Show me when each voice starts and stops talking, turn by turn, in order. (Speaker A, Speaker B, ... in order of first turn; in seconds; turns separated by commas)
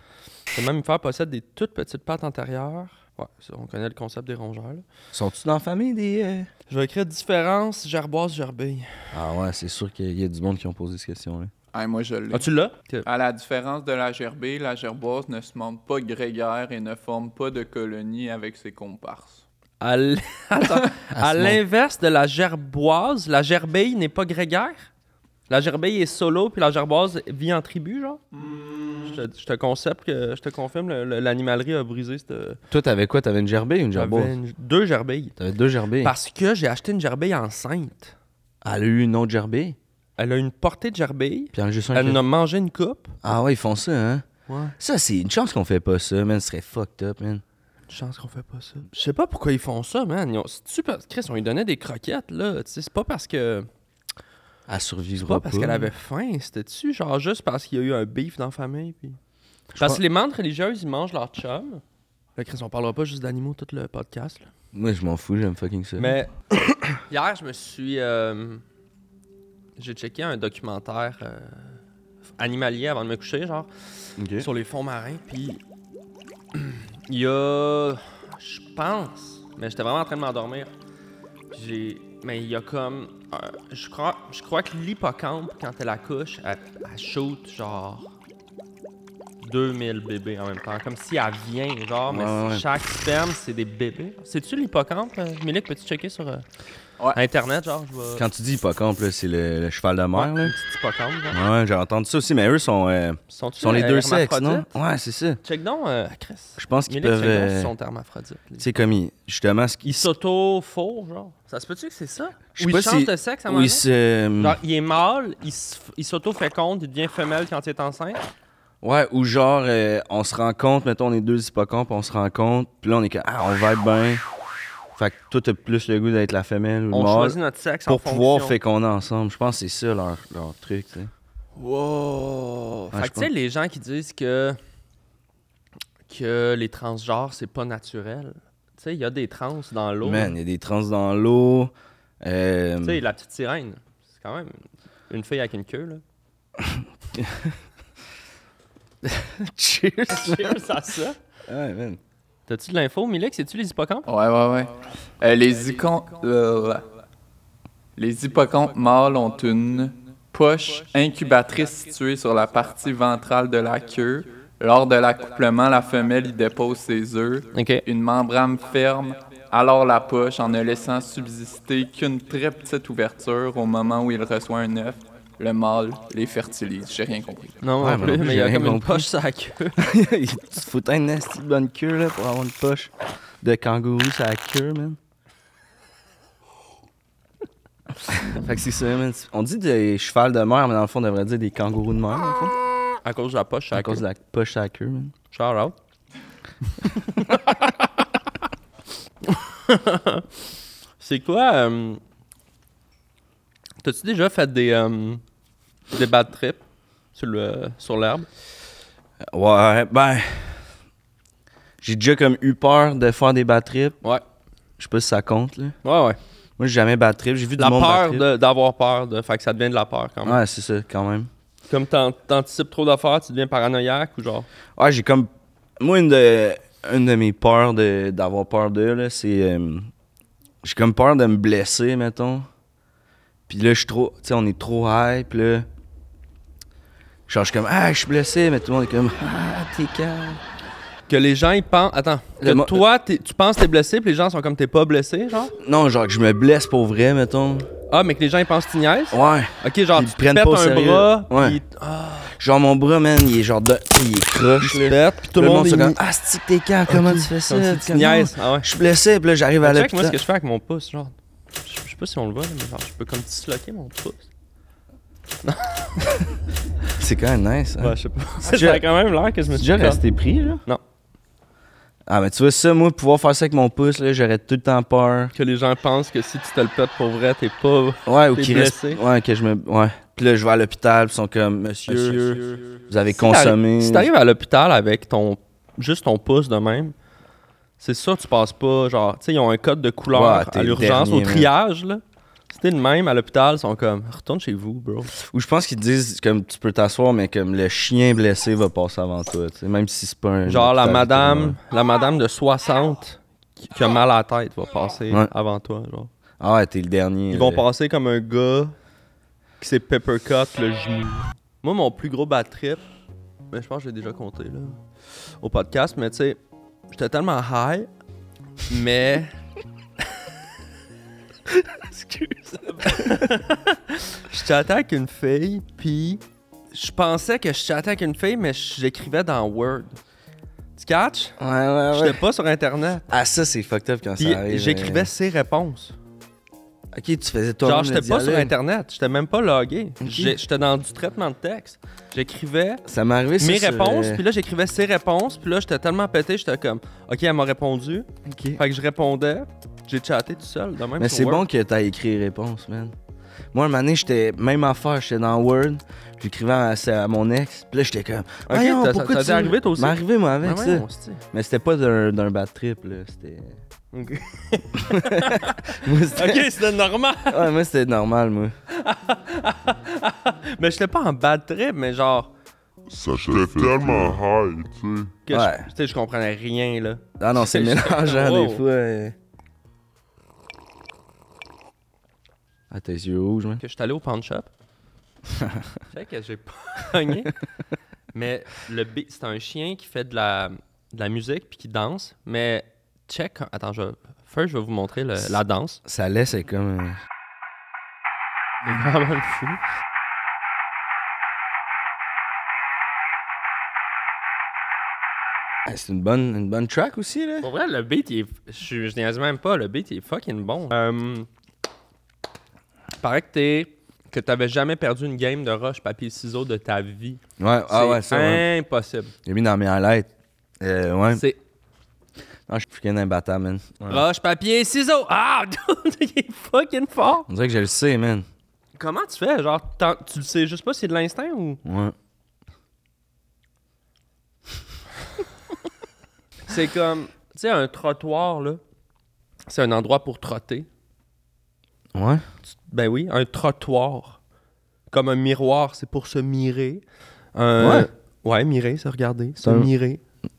Speaker A: 0.5-4.8, Speaker B: 5.1-6.5, Speaker A: 6.7-9.1, Speaker B: 9.1-11.5, Speaker C: 11.7-12.5, Speaker A: 12.3-13.1, Speaker C: 13.0-19.4, Speaker A: 19.8-24.9, Speaker B: 21.1-21.6, Speaker A: 25.5-28.2, Speaker C: 28.4-29.0, Speaker A: 29.0-32.6, Speaker B: 32.7-34.3, Speaker A: 33.9-35.4, Speaker B: 35.4-36.1, Speaker A: 36.0-38.1, Speaker B: 38.6-39.8, Speaker A: 40.2-43.2, Speaker B: 41.5-42.2, Speaker B: 43.2-44.2, Speaker A: 44.5-44.7, Speaker B: 44.8-47.4, Speaker A: 47.9-53.7, Speaker B: 54.7-55.9, Speaker A: 55.2-59.2, Speaker B: 59.7-60.0, Speaker A: 59.8-61.8, Speaker A: 62.4-64.5, Speaker B: 64.7-66.9, Speaker A: 66.0-66.3, Speaker A: 67.1-68.6, Speaker A: 69.8-71.8, Speaker A: 72.4-73.7, Speaker B: 74.2-74.5, Speaker A: 74.3-75.6, Speaker A: 76.5-80.7, Speaker A: 81.5-88.1, Speaker A: 89.4-96.4, Speaker B: 92.1-92.7, Speaker A: 97.1-98.2, Speaker B: 98.2-100.5, Speaker A: 100.1-101.4, Speaker B: 101.3-105.4, Speaker A: 103.3-104.7, Speaker A: 105.4-108.7, Speaker B: 106.6-107.7, Speaker B: 108.6-110.1, Speaker A: 109.8-113.8, Speaker B: 112.5-114.6, Speaker A: 114.4-118.2, Speaker B: 118.8-124.2, Speaker B: 125.0-131.1, Speaker A: 126.9-128.5, Speaker A: 131.6-134.6, Speaker B: 132.9-133.3, Speaker A: 136.1-140.3, Speaker B: 140.0-143.0, Speaker A: 142.8-146.0, Speaker B: 146.6-147.6, Speaker B: 149.0-150.6, Speaker A: 150.1-151.2, Speaker B: 151.5-152.0, Speaker A: 152.5-154.1, Speaker C: 154.1-156.8, Speaker C: 158.0-177.6, Speaker A: 167.5-167.8, Speaker A: 177.6-179.8, Speaker B: 177.8-179.1, Speaker B: 179.8-185.0, Speaker B: 188.1-192.5, Speaker A: 193.0-194.0, Speaker B: 193.7-195.1, Speaker A: 195.3-195.7, Speaker A: 197.1-197.7, Speaker A: 199.3-200.2, Speaker A: 201.0-202.0, Speaker A: 203.8-205.2, Speaker A: 205.9-206.6, Speaker A: 207.1-208.3, Speaker B: 209.2-210.6, Speaker B: 211.8-214.0, Speaker B: 214.8-215.7, Speaker A: 215.8-216.2, Speaker B: 216.6-218.2, Speaker A: 217.6-220.4, Speaker B: 220.2-221.3, Speaker A: 221.7-224.5, Speaker B: 224.8-229.9, Speaker B: 230.6-232.4, Speaker B: 233.5-235.7, Speaker B: 237.3-240.4, Speaker A: 241.1-245.5, Speaker B: 242.4-242.8, Speaker B: 245.6-247.7, Speaker A: 247.9-252.3, Speaker B: 249.1-251.6, Speaker B: 252.3-260.2, Speaker A: 254.6-256.0, Speaker A: 256.9-258.7, Speaker A: 259.6-264.3, Speaker A: 265.4-266.2, Speaker B: 266.9-268.9, Speaker A: 267.8-270.0, Speaker B: 269.5-270.6, Speaker B: 272.1-275.3, Speaker A: 275.3-279.0, Speaker B: 278.1-284.1, Speaker A: 281.9-286.9, Speaker A: 287.8-295.1, Speaker B: 290.1-291.5, Speaker B: 295.1-301.6, Speaker A: 300.4-306.1, Speaker B: 306.4-307.6, Speaker A: 307.3-308.7, Speaker A: 309.6-312.8, Speaker A: 313.5-314.8, Speaker A: 315.4-317.9, Speaker A: 318.7-319.3, Speaker B: 321.5-323.3, Speaker A: 322.9-330.0, Speaker A: 330.8-331.4, Speaker B: 331.4-332.2, Speaker A: 331.9-333.1, Speaker B: 333.1-335.1, Speaker A: 334.2-335.9, Speaker B: 336.9-338.5, Speaker A: 337.6-342.8, Speaker B: 340.0-340.4, Speaker B: 342.8-344.2, Speaker A: 343.4-351.4, Speaker B: 348.2-348.6, Speaker B: 351.0-352.9, Speaker B: 353.5-363.6, Speaker A: 358.5-361.2, Speaker A: 363.9-367.5, Speaker B: 364.9-366.6, Speaker B: 367.3-368.5, Speaker A: 368.7-372.3, Speaker D: 372.9-375.1, Speaker B: 373.6-374.1, Speaker A: 375.2-378.6, Speaker B: 375.3-375.7, Speaker B: 377.2-379.1, Speaker B: 382.7-383.6, Speaker A: 383.6-384.5, Speaker B: 385.3-385.6, Speaker A: 385.9-387.3, Speaker A: 388.1-395.8, Speaker B: 395.2-397.0, Speaker A: 398.6-399.6, Speaker B: 405.6-407.5, Speaker A: 407.4-411.3, Speaker A: 413.0-419.1, Speaker B: 417.4-418.5, Speaker B: 419.2-421.2, Speaker A: 421.1-421.4, Speaker B: 422.5-424.0, Speaker A: 423.9-427.3, Speaker B: 427.3-428.2, Speaker A: 428.8-431.6, Speaker B: 431.6-431.9, Speaker A: 436.5-438.6, Speaker A: 439.5-440.7, Speaker B: 441.9-442.2, Speaker A: 442.5-444.2, Speaker A: 444.9-450.0, Speaker B: 447.6-447.9, Speaker B: 449.4-449.7